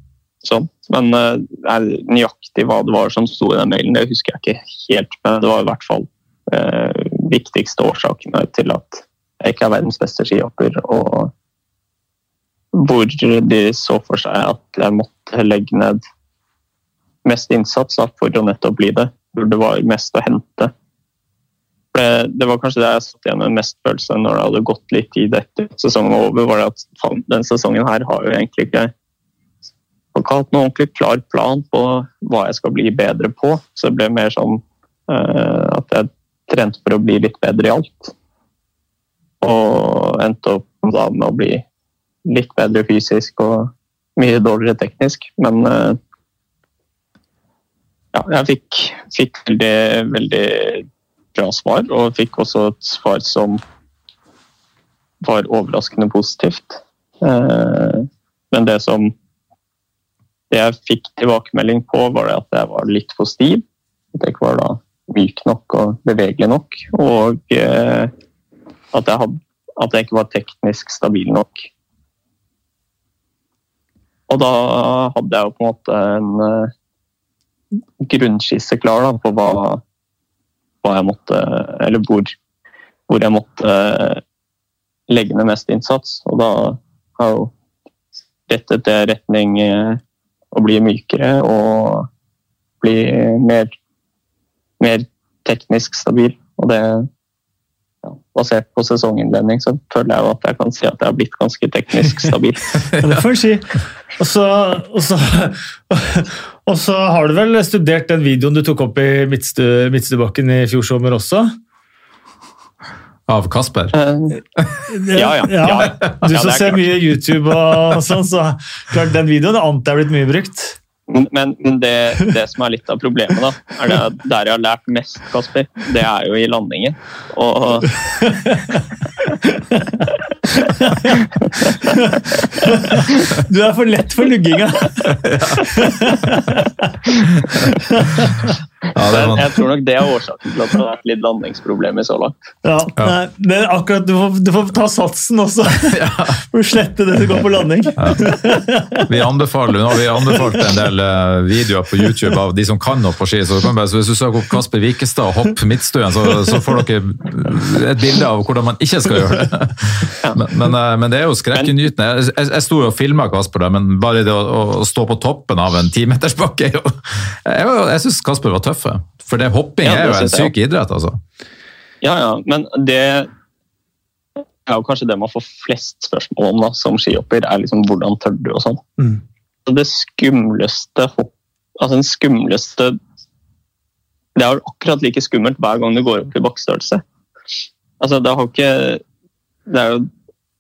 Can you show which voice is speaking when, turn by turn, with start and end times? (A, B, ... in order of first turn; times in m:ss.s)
0:00.4-0:11.3 A
0:12.7-0:16.0 A
0:17.2-0:20.7 A
0:21.9-0:28.9 A
0:30.1-0:38.1 A
0:39.4-0:41.6 A
0:42.2-0:46.0 A
0:48.1-0:53.6 A
0:55.2-0:59.1 A
1:00.5-1:03.6 A
1:04.2-1:08.1 A
1:08.9-1:11.7 A
1:14.3-1:16.7 A
1:18.0-1:19.8 A
1:20.8-1:22.3 A
1:23.1-1:24.2 A
1:25.1-1:27.5 A
1:28.5-1:30.0 A
1:30.5-1:32.1 A
1:32.8-1:33.7 A
1:34.8-1:37.1 A
1:38.0-1:42.7 A
1:42.8-1:43.2 B
1:43.0-1:51.5 C
1:53.3-1:54.0 B
1:53.9-1:54.4 A
1:54.6-1:54.8 B
1:54.9-2:00.8 C
1:55.1-1:56.9 A
2:01.1-2:08.0 A
2:08.2-2:08.8 C
2:09.4-2:11.2 C
2:11.9-2:16.8 C
2:15.2-2:15.6 B
2:17.4-2:17.7 B
2:18.0-2:18.5 C
2:18.9-2:19.5 B
2:19.1-2:22.3 A
2:22.6-2:29.1 C
2:25.9-2:26.4 B
2:28.0-2:28.4 B
2:29.1-2:51.2 B
2:30.2-2:30.6 C
2:49.8-2:50.5 A
2:52.0-2:53.3 A
2:54.7-2:58.8 A
2:59.7-3:03.0 A
3:04.4-3:07.0 A
3:08.0-3:09.0 A
3:09.7-3:10.1 A